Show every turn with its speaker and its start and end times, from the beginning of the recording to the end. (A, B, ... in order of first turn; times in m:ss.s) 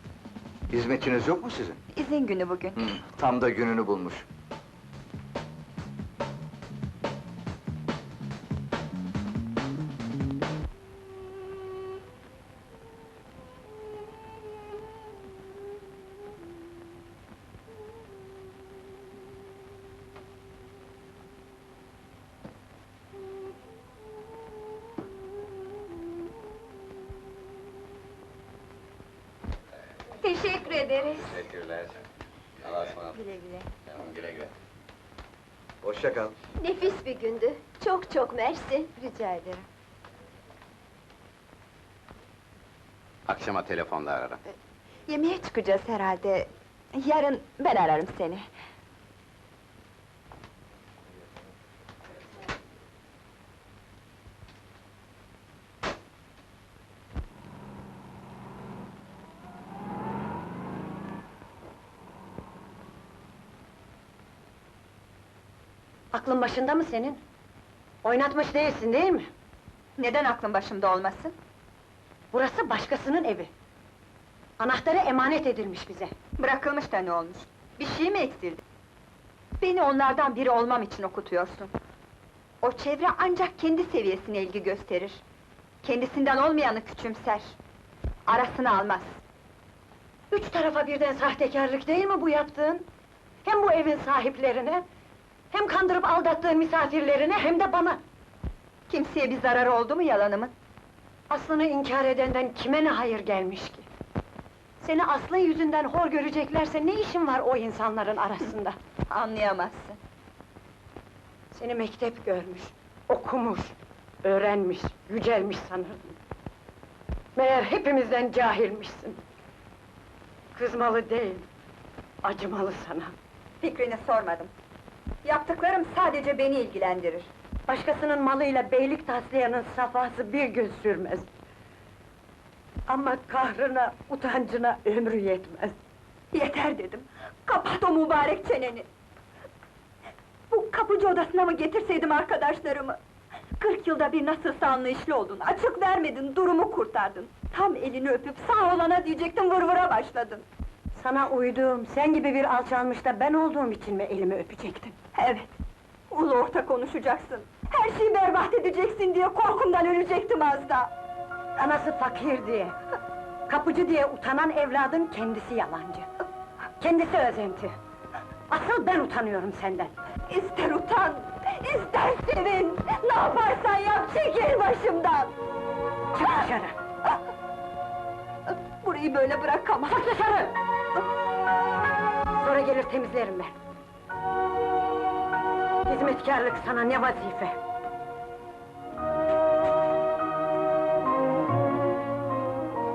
0:00.7-0:01.8 A
0:01.9-0:02.8 B
0:02.8-0:04.2 A
0:30.2-0:31.4 C
0:31.2-0:32.0 D
0:32.6-0:33.1 D
0:33.1-0:33.7 B
0:33.9-0:34.5 D
0:35.8-0:36.3 A
0:36.6-0:38.9 C
0:39.0-0:39.6 B
0:43.3-0:44.4 D
0:45.1-0:48.5 B
1:06.1-1:07.2 E
1:08.0-1:09.3 E
1:10.0-1:11.3 B
1:12.3-1:13.5 E
1:14.6-1:16.1 E
1:16.4-1:18.6 B
1:19.6-1:21.7 B
1:22.6-1:25.2 B
1:25.8-1:27.5 B
1:28.3-1:29.0 B
1:30.3-1:32.8 E
1:33.4-1:34.8 E
1:35.5-1:38.0 E
1:38.9-1:40.5 B
1:41.3-1:43.8 E
1:44.8-1:48.8 E
1:49.1-1:50.0 B
1:51.5-1:56.2 E
1:57.4-1:59.2 E
2:00.5-2:01.5 E
2:02.2-2:03.1 E
2:03.6-2:04.5 B
2:05.2-2:07.3 B
2:07.7-2:11.2 E
2:12.9-2:15.7 E
2:16.3-2:18.8 B
2:20.5-2:23.0 B
2:23.6-2:30.4 B
2:31.0-2:35.0 E
2:35.1-2:35.5 B
2:36.1-2:40.9 B
2:41.6-2:42.7 E
2:43.5-2:46.1 E
2:46.8-2:47.7 E
2:48.5-2:49.9 E
2:50.3-2:55.3 B
2:56.1-2:56.8 E
2:58.5-3:00.5 B
2:59.9-3:00.5 E
3:02.4-3:03.5 E
3:05.9-3:07.6 E